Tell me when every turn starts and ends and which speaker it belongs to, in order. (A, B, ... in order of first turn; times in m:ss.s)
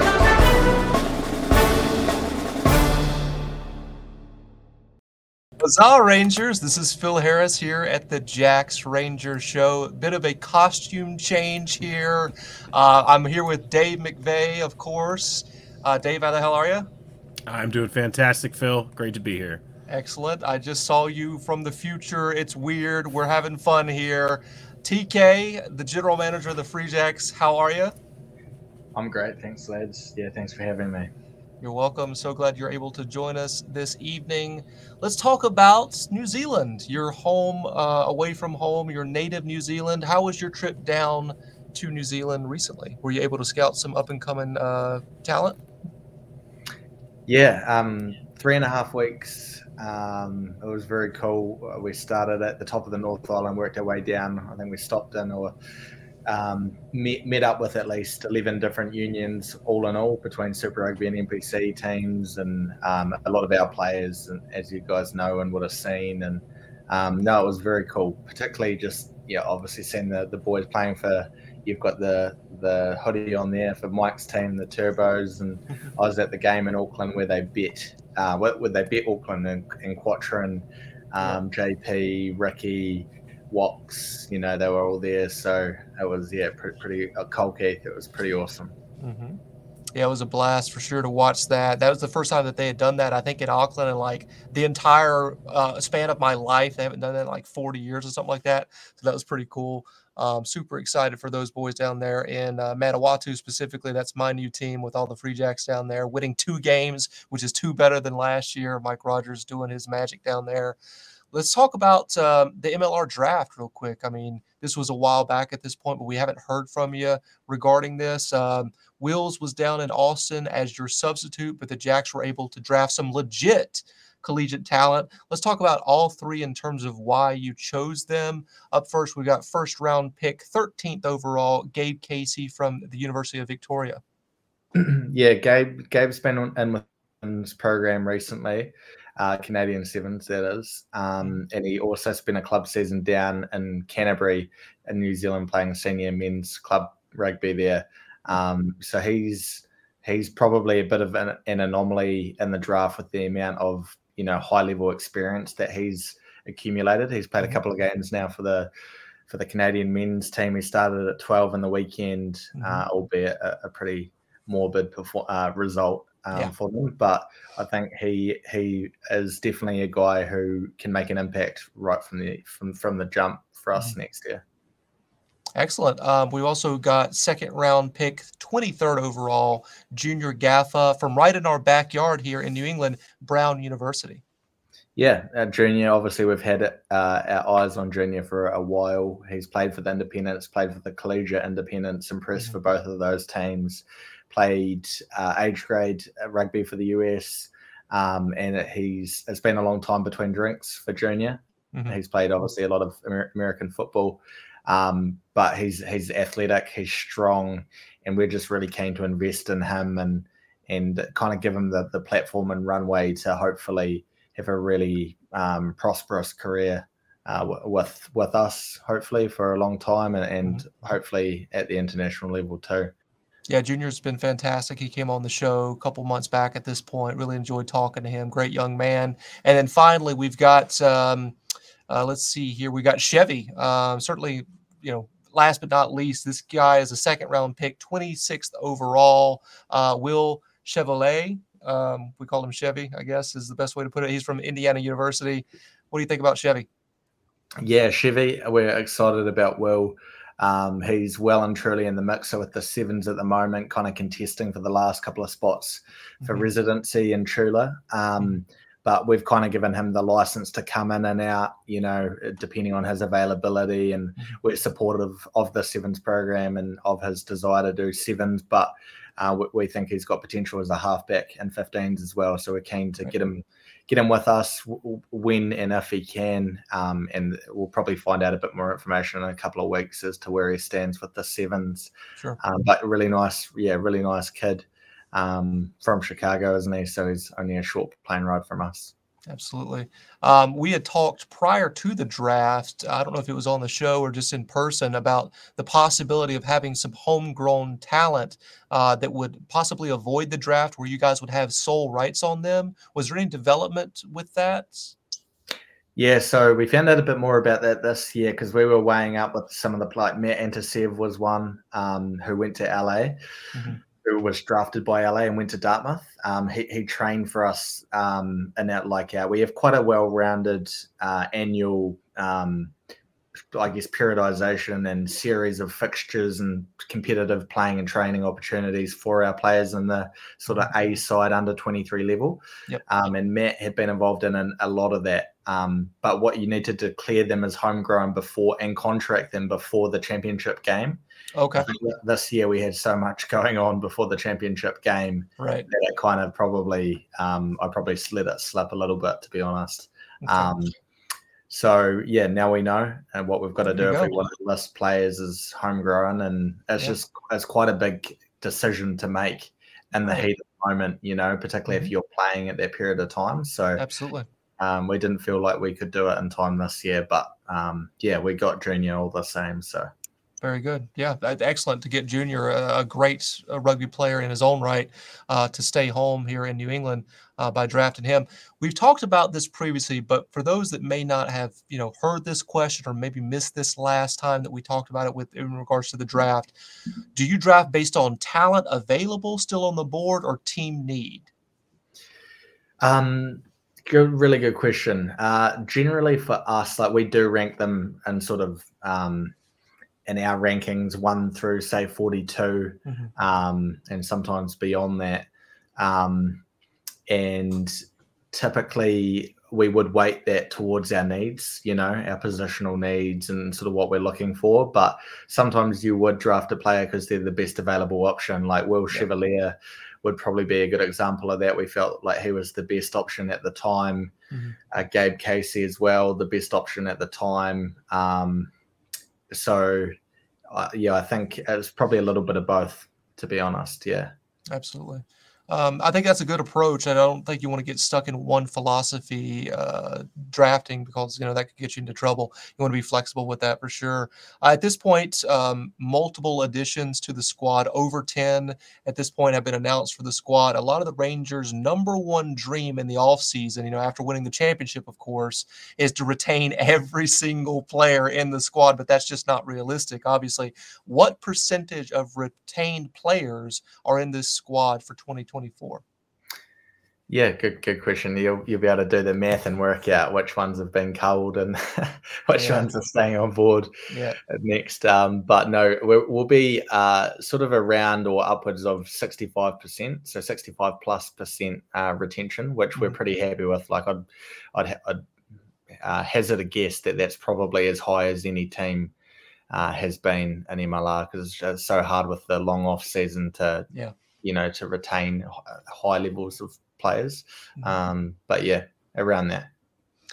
0:05.6-0:16.9 A
0:17.5-0:19.6 B
0:19.9-0:28.0 A
0:29.0-0:31.1 C
0:31.6-0:45.6 A
0:47.3-0:55.5 C
0:56.3-1:28.8 C
1:29.0-1:29.4 A
1:30.0-1:50.8 A
1:51.3-2:14.0 A
2:14.7-2:38.7 C
2:39.3-2:54.4 C
2:42.6-2:42.8 A
2:55.6-3:04.2 A
3:05.0-3:42.9 C
3:43.5-3:51.4 A
3:51.9-4:06.7 A
4:07.6-4:48.9 C
4:16.2-4:16.5 A
4:49.3-5:05.0 A
5:06.0-5:13.2 C
5:13.5-5:13.8 A
5:14.0-5:22.7 C
5:23.5-5:41.0 C
5:41.4-5:41.7 A
5:41.6-5:50.7 C
5:45.4-5:45.7 A
5:50.2-5:50.6 A
5:51.5-6:03.8 C
5:53.7-5:54.1 A
6:03.8-6:04.3 A
6:04.6-6:09.9 C
6:10.4-6:26.5 A
6:27.1-6:31.3 A
6:32.8-6:39.3 C
6:40.1-6:46.4 C
6:47.1-7:04.1 C
7:04.3-7:04.6 A
7:04.7-7:08.5 C
7:09.3-7:09.9 C
7:10.5-7:14.1 C
7:14.5-7:45.8 A
7:47.1-7:53.7 C
7:52.4-7:52.7 A
7:53.9-7:54.2 A
7:54.3-8:05.0 C
8:05.8-8:08.9 C
8:09.5-8:13.7 C
8:14.2-8:19.5 C